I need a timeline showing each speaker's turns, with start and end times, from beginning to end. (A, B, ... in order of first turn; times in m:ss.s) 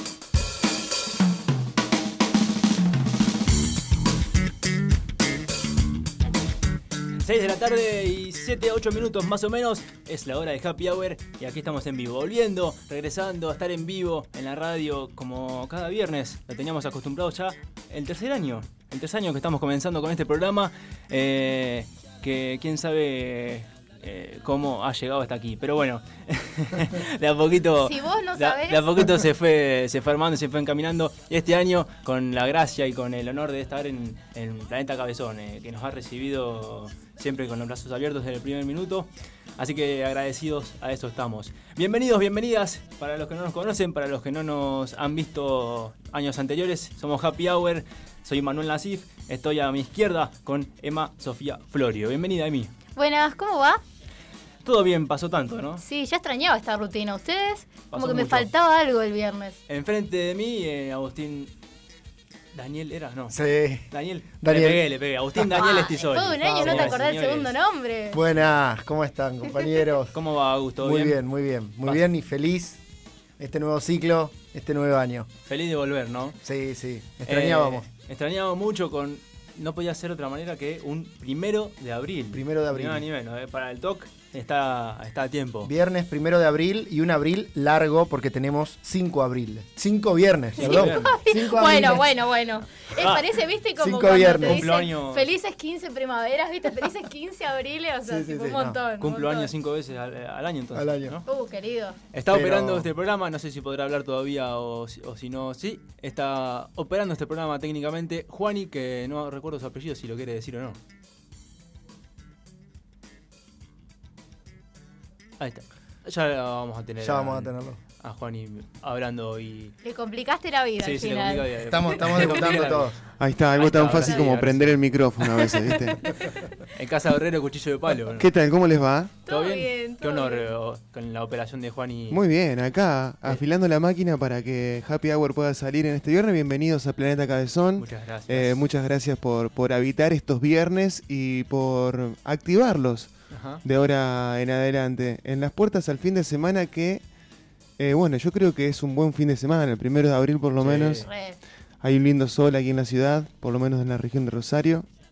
0:07.2-0:52.7 A
0:27.8-0:29.1 B
0:53.0-0:53.8 B
0:54.6-0:55.8 A
0:55.8-0:59.6 B
0:57.9-0:58.5 A
0:59.7-1:01.5 A
1:02.5-1:03.4 A
1:03.3-1:05.7 C
1:03.9-1:07.5 A
1:05.6-1:08.2 B
1:06.4-1:07.0 C
1:08.1-1:10.2 C
1:10.1-1:11.2 A
1:10.8-1:12.8 C
1:13.4-1:15.3 C
1:15.5-1:16.4 A
1:16.4-1:17.9 C
1:17.3-1:25.7 A
1:22.3-1:23.1 C
1:25.6-1:32.1 C
1:30.6-1:31.2 A
1:30.6-1:39.5 B
1:33.0-1:33.4 A
1:33.8-1:34.7 C
1:34.1-1:35.3 A
1:38.1-1:38.8 C
1:39.0-1:41.2 A
1:40.8-1:41.2 C
1:41.3-1:42.0 B
1:42.1-1:50.8 A
1:42.3-1:42.9 C
1:55.4-1:59.8 A
1:57.0-1:57.8 C
1:59.8-2:01.5 B
2:00.8-2:03.0 A
2:01.7-2:03.0 C
2:03.2-2:06.4 D
2:03.5-2:04.8 A
2:03.9-2:04.2 B
2:06.7-2:08.3 A
2:08.2-2:09.1 D
2:09.3-2:10.5 B
2:09.3-2:12.2 A
2:12.1-2:27.0 D
2:17.8-2:18.6 A
2:23.3-2:23.6 A
2:27.8-2:31.1 D
2:30.6-2:31.1 A
2:31.0-2:31.4 B
2:31.8-2:34.9 D